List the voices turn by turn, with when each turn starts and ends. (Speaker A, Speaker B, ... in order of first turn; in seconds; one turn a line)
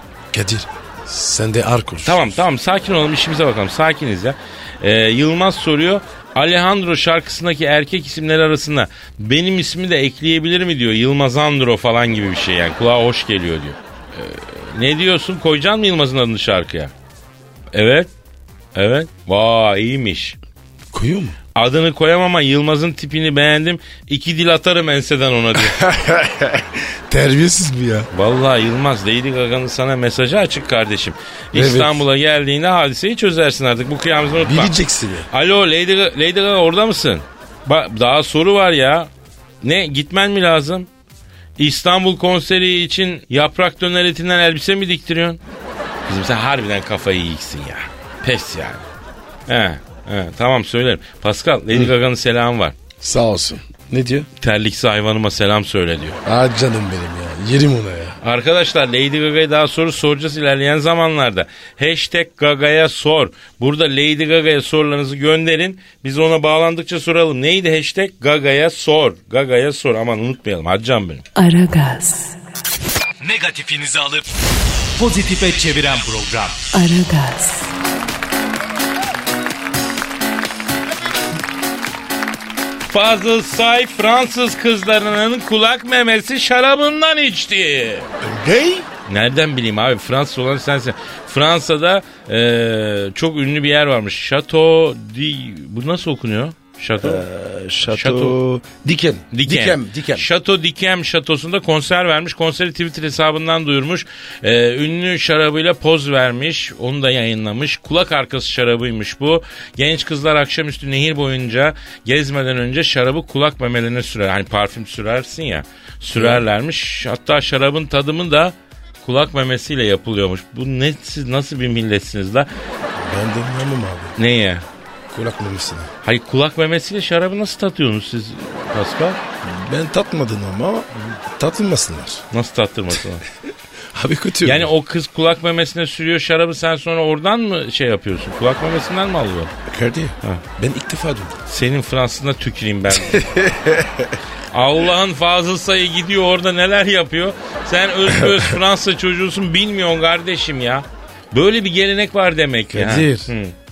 Speaker A: 0.3-2.4
Speaker B: 2.0-16.9
Speaker B: 17.7-18.1
Speaker B: 18.7-20.4
Speaker A: 20.9-21.4
Speaker B: 21.5-25.8
Speaker A: 25.6-28.1
Speaker B: 28.1-34.7
Speaker A: 31.5-32.0
Speaker A: 34.4-35.3
Speaker B: 35.3-39.1
Speaker B: 39.6-40.9
Speaker B: 41.6-45.4
Speaker B: 46.1-48.8
Speaker B: 49.5-52.7
Speaker A: 53.0-54.3
Speaker B: 54.4-56.2
Speaker A: 56.2-58.2
Speaker B: 58.2-71.2
Speaker C: 71.3-72.4
Speaker D: 73.2-74.3
Speaker D: 75.0-76.6
Speaker C: 76.7-77.7
Speaker B: 82.9-88.1
Speaker A: 88.2-88.9
Speaker B: 89.1-97.2
Speaker A: 97.0-100.3
Speaker B: 97.8-98.4
Speaker B: 99.3-122.5
Speaker A: 116.1-116.4
Speaker A: 123.0-124.2
Speaker B: 124.2-124.6
Speaker A: 125.1-125.9
Speaker B: 126.0-129.2
Speaker A: 129.4-132.2
Speaker B: 132.3-133.2
Speaker A: 133.9-134.7
Speaker B: 134.4-139.5
Speaker A: 139.7-141.4
Speaker B: 141.5-143.2
Speaker A: 142.9-144.2
Speaker B: 144.5-153.5
Speaker A: 148.2-148.5
Speaker A: 152.7-153.3